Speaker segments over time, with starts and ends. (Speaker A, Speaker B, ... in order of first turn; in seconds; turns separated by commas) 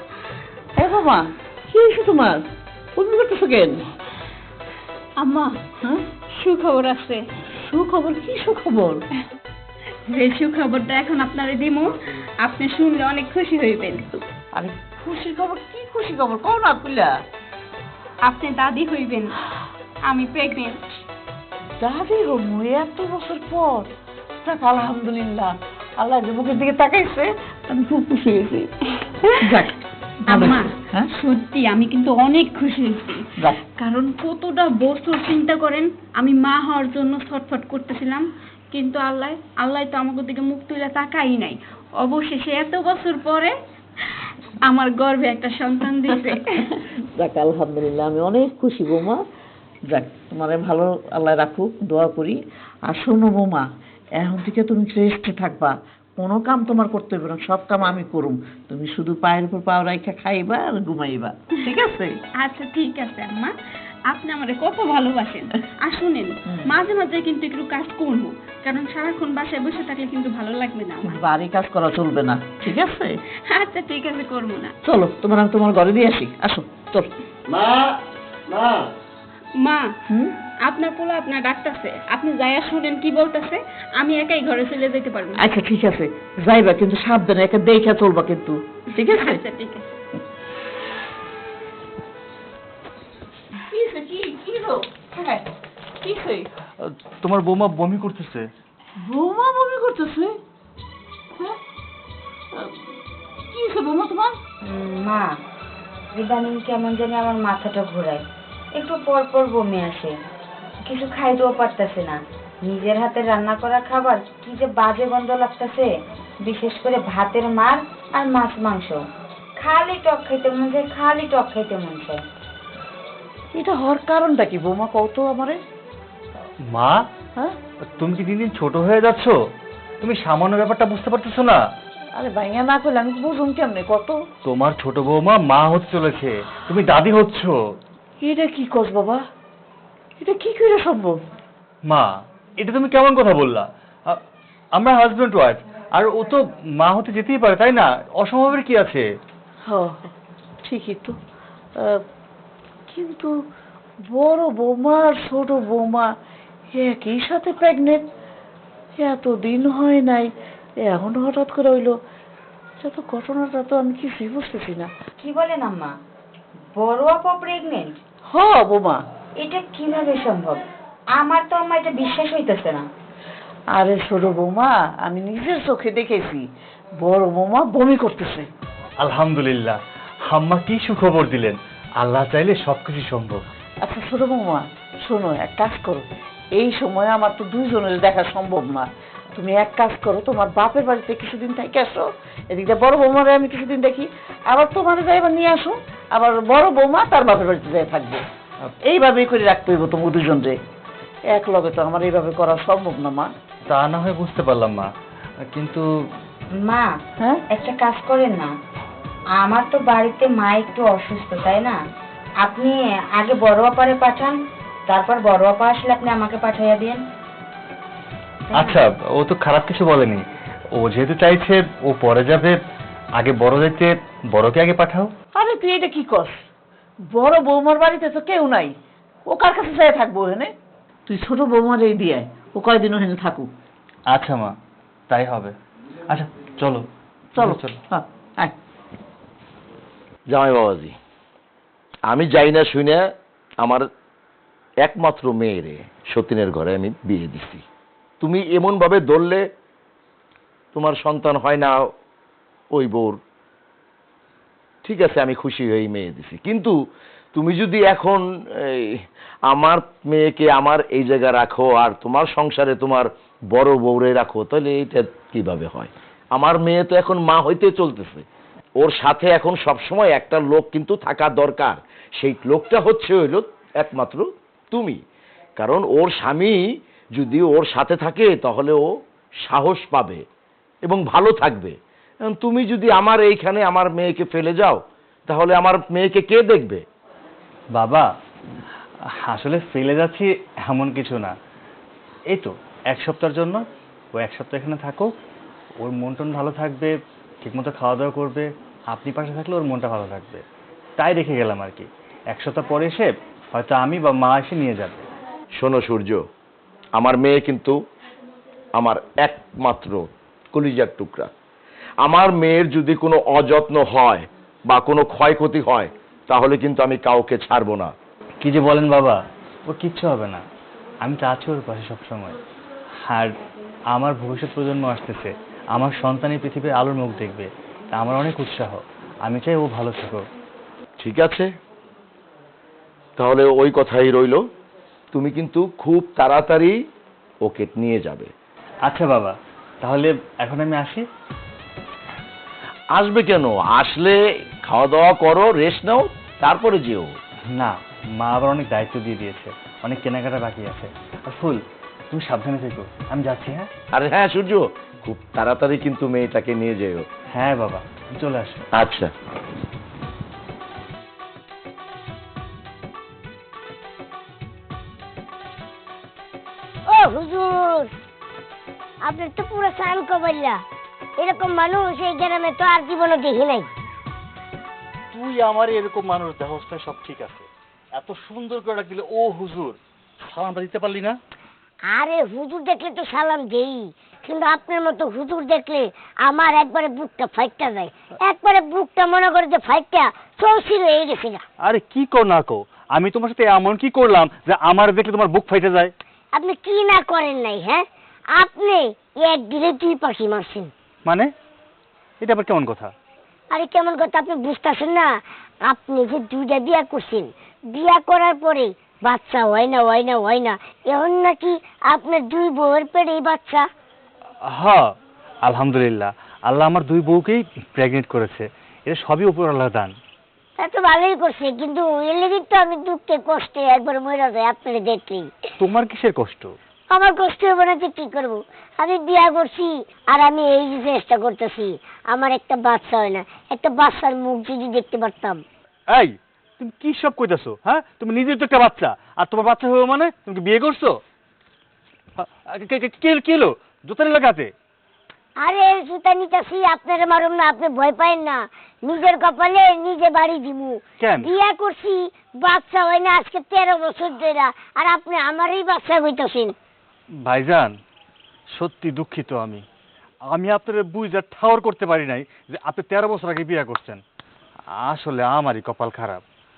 Speaker A: 0.8-2.4, Speaker A: 3.0-3.9, Speaker B: 5.2-5.6, Speaker B: 6.3-7.2, Speaker A: 7.6-9.0, Speaker B: 10.1-14.2, Speaker A: 14.5-17.1, Speaker B: 18.2-19.4, Speaker B: 20.1-20.8, Speaker A: 21.8-23.9, Speaker A: 24.4-29.7, Speaker B: 30.3-43.5, Speaker A: 30.3-31.1, Speaker B: 44.7-46.9, Speaker A: 47.1-49.2, Speaker A: 49.9-53.6, Speaker A: 54.2-62.2, Speaker B: 62.4-63.5, Speaker B: 64.1-71.2, Speaker A: 71.0-73.1, Speaker B: 73.5-74.7, Speaker A: 74.8-77.1, Speaker B: 79.6-79.9, Speaker B: 80.7-85.4, Speaker A: 85.4-89.4, Speaker B: 89.0-89.9, Speaker A: 93.7-95.5, Speaker A: 96.0-96.5, Speaker C: 96.8-98.5, Speaker A: 99.0-100.3, Speaker A: 102.5-102.8, Speaker A: 103.5-104.3, Speaker D: 104.7-105.4, Speaker D: 106.1-108.2, Speaker D: 108.8-110.1, Speaker D: 110.9-115.9, Speaker D: 116.4-119.0, Speaker D: 119.6-122.2, Speaker A: 123.5-125.6, Speaker C: 126.7-127.0, Speaker C: 127.9-129.3, Speaker C: 130.0-131.6, Speaker A: 132.2-134.1, Speaker C: 134.4-137.5, Speaker A: 138.2-139.2, Speaker A: 140.2-141.2, Speaker C: 141.9-144.2, Speaker C: 144.8-149.0, Speaker A: 149.7-150.1, Speaker A: 150.6-151.2, Speaker A: 152.9-153.3, Speaker A: 154.1-156.1, Speaker A: 156.8-158.0, Speaker A: 159.0-162.0, Speaker A: 162.8-164.9, Speaker D: 165.2-165.9, Speaker D: 166.7-168.0, Speaker A: 168.3-169.0, Speaker D: 169.4-170.6, Speaker D: 171.2-172.8, Speaker A: 173.8-176.4, Speaker A: 177.0-178.5, Speaker C: 179.0-183.4, Speaker A: 183.8-198.2, Speaker A: 198.8-200.6, Speaker A: 201.3-203.3, Speaker C: 203.7-204.9, Speaker C: 205.5-205.9, Speaker D: 206.6-206.9, Speaker D: 207.5-208.5, Speaker D: 209.4-211.8, Speaker D: 212.4-214.4, Speaker D: 214.9-217.0, Speaker D: 218.5-218.8, Speaker C: 218.5-222.6, Speaker C: 223.2-225.1, Speaker A: 225.3-226.5, Speaker A: 227.1-228.7, Speaker A: 229.3-230.5, Speaker A: 231.1-233.5, Speaker C: 234.1-234.5, Speaker C: 235.1-235.6, Speaker C: 236.1-236.8, Speaker A: 237.3-238.5, Speaker C: 237.4-237.8, Speaker E: 240.3-240.9, Speaker E: 242.1-243.0, Speaker E: 244.8-247.6, Speaker E: 248.2-249.4, Speaker E: 250.7-251.8, Speaker E: 252.7-253.2, Speaker E: 254.8-256.7, Speaker E: 257.3-258.9, Speaker E: 259.5-268.2, Speaker E: 268.8-275.0, Speaker E: 275.6-276.6, Speaker E: 277.2-278.8, Speaker E: 279.4-280.2, Speaker E: 280.9-281.7, Speaker E: 282.3-286.8, Speaker C: 287.7-288.1, Speaker C: 289.3-291.3, Speaker C: 292.3-293.6, Speaker C: 294.2-295.1, Speaker C: 295.8-300.4, Speaker C: 301.0-305.1, Speaker E: 305.6-306.2, Speaker E: 306.9-307.7, Speaker E: 308.8-311.3, Speaker E: 312.0-317.9, Speaker C: 318.4-320.4, Speaker C: 321.0-322.4, Speaker C: 323.1-323.4, Speaker C: 323.9-330.2, Speaker E: 331.0-331.5, Speaker E: 333.2-334.4, Speaker E: 335.1-336.8, Speaker E: 337.4-338.3, Speaker C: 338.9-341.0, Speaker E: 342.9-347.1, Speaker C: 347.5-353.7, Speaker E: 353.9-357.0, Speaker C: 357.3-358.6, Speaker E: 358.8-359.1, Speaker F: 366.9-367.9, Speaker F: 369.0-370.6, Speaker F: 371.2-373.7, Speaker C: 375.1-381.2, Speaker F: 381.9-391.4, Speaker C: 391.6-395.9, Speaker F: 396.3-400.7, Speaker C: 402.2-402.9, Speaker F: 403.5-405.1, Speaker F: 405.7-413.6, Speaker C: 414.5-414.9, Speaker C: 415.4-419.9, Speaker F: 420.6-425.3, Speaker C: 425.6-426.5, Speaker F: 426.9-435.4, Speaker C: 435.9-441.0, Speaker C: 442.2-444.5, Speaker F: 445.4-456.5, Speaker C: 451.0-451.3, Speaker C: 457.2-457.7, Speaker C: 458.5-459.6, Speaker C: 460.3-464.0, Speaker C: 464.7-466.2